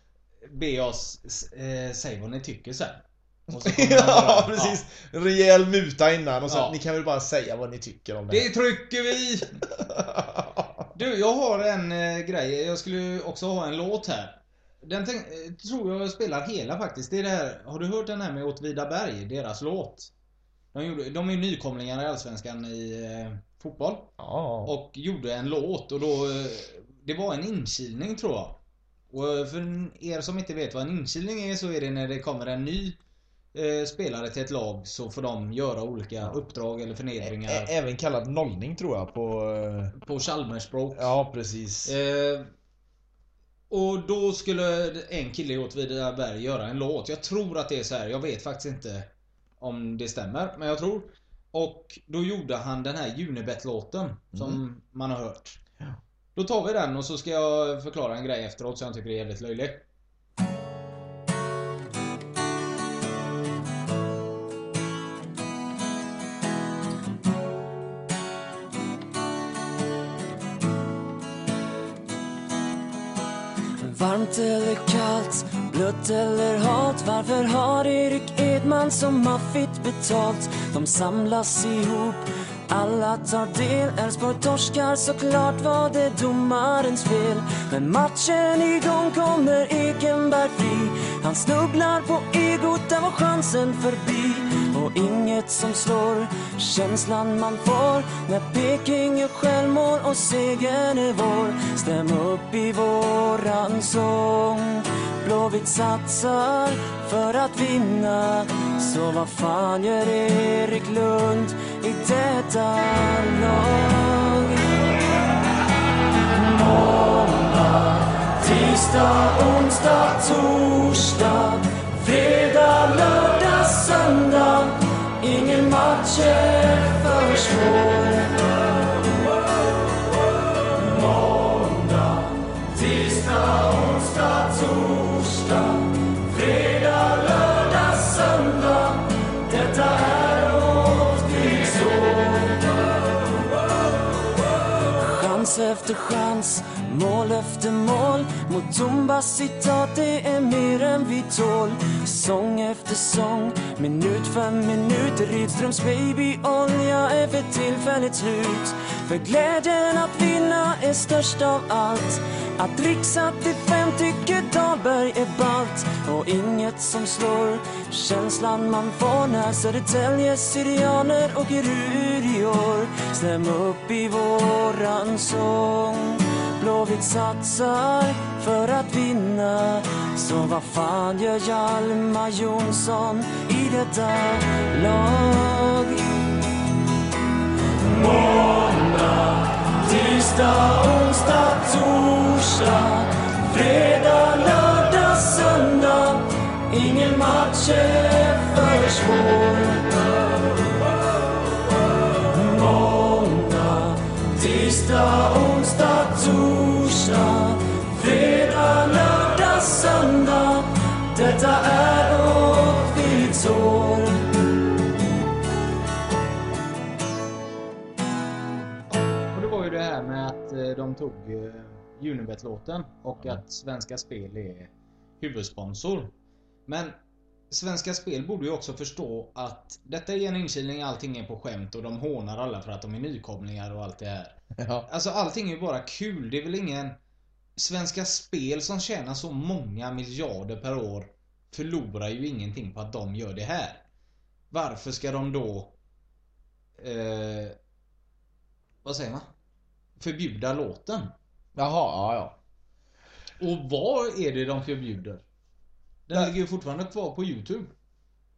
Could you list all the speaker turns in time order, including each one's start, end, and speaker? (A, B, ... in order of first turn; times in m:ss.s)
0:00.4-0:04.8 A
0:03.5-0:08.5 B
0:06.5-0:06.8 A
0:08.3-0:09.6 A
0:09.7-0:10.7 B
0:10.9-0:20.1 A
0:20.7-0:24.1 A
0:24.2-0:24.7 B
0:24.6-0:28.6 A
0:29.1-0:33.0 A
0:33.5-0:37.7 A
0:37.2-0:40.0 B
0:40.0-0:41.1 A
0:40.9-0:41.9 B
0:41.8-0:42.5 A
0:43.7-0:55.6 A
0:54.3-0:54.6 B
0:56.4-0:59.9 A
1:13.8-1:54.8 C
1:56.3-2:08.6 C
2:10.7-2:22.7 C
2:24.9-3:06.2 C
3:07.8-3:20.4 C
3:22.2-3:34.4 C
3:39.3-3:46.1 A
3:46.7-3:47.0 A
3:47.5-3:57.0 A
3:54.6-3:54.9 B
3:57.6-4:03.8 A
4:04.5-4:05.8 A
4:06.8-4:07.6 A
4:08.8-4:09.3 A
4:10.0-4:11.1 A
4:11.6-4:12.4 B
4:13.4-4:15.2 A
4:16.1-4:17.7 A